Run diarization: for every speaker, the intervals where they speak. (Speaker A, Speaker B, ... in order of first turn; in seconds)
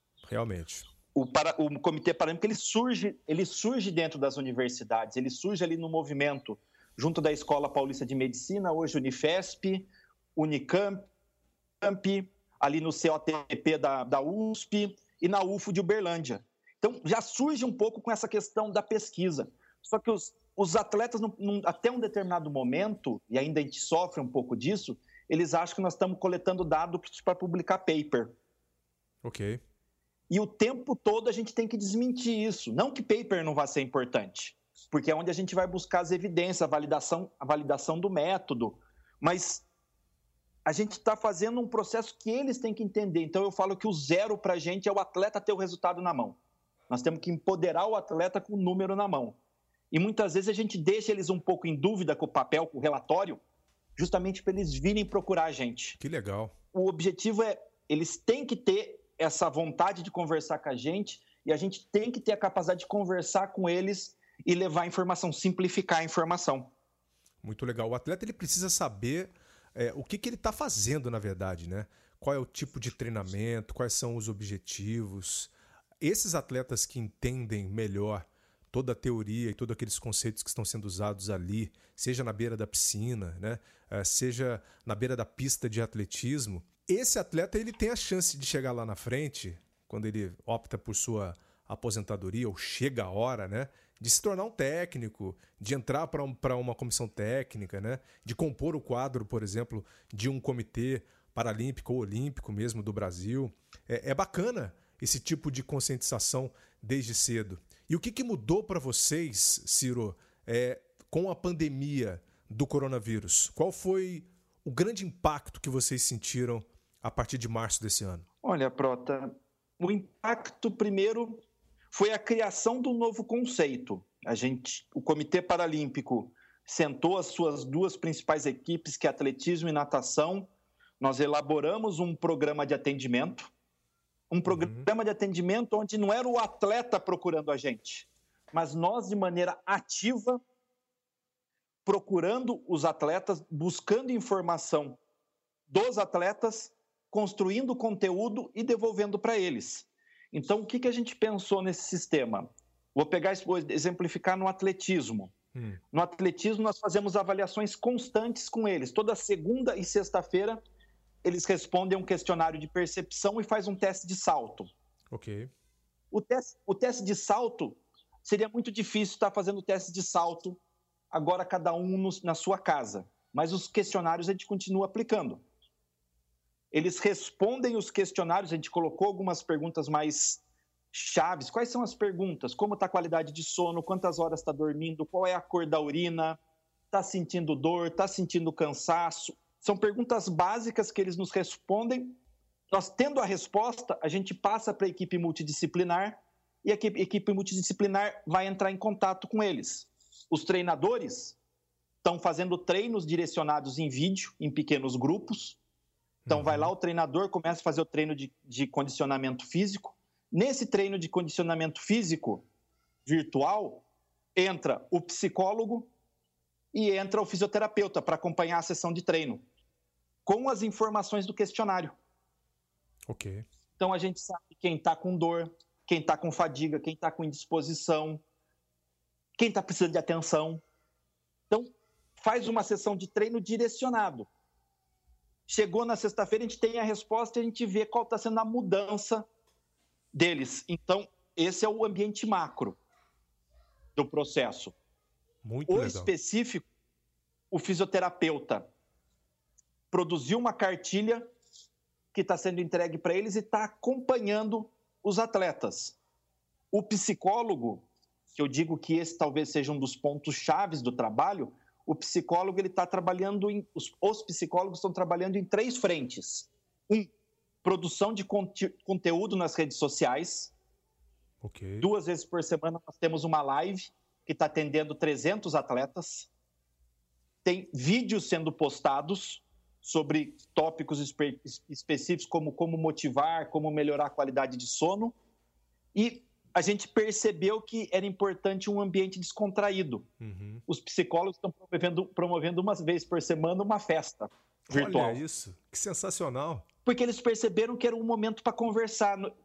Speaker A: 0.2-0.8, 29.2-29.6, 56.0-56.5, 67.4-118.2, 134.5-134.9, 155.5-155.8, 165.1-165.5, 206.2-206.7, 223.1-223.4, 245.4-246.1, 271.4-271.9, 290.2-290.6, 294.7-296.6
Speaker B: 1.1-11.1, 11.8-28.4, 30.3-39.6, 40.6-46.4, 46.9-49.4, 49.9-53.4, 54.0-56.0, 56.7-66.7, 118.4-133.5, 134.3-140.4, 141.8-145.0, 145.7-155.3, 155.9-160.6, 161.2-164.7, 166.1-170.6, 171.1-175.4, 176.7-186.4, 186.9-192.2, 192.7-201.4, 202.0-205.6, 206.3-212.4, 213.1-215.9, 216.7-219.4, 220.2-221.9, 223.8-228.2, 229.4-230.6, 231.5-234.3, 235.5-239.3, 240.1-242.8, 243.9-244.7, 245.7-246.7, 247.5-248.7, 249.9-251.3, 252.1-255.9, 256.7-267.1, 267.6-270.5, 271.8-276.3, 277.4-285.1, 285.9-290.1, 290.7-295.2, 296.8-299.3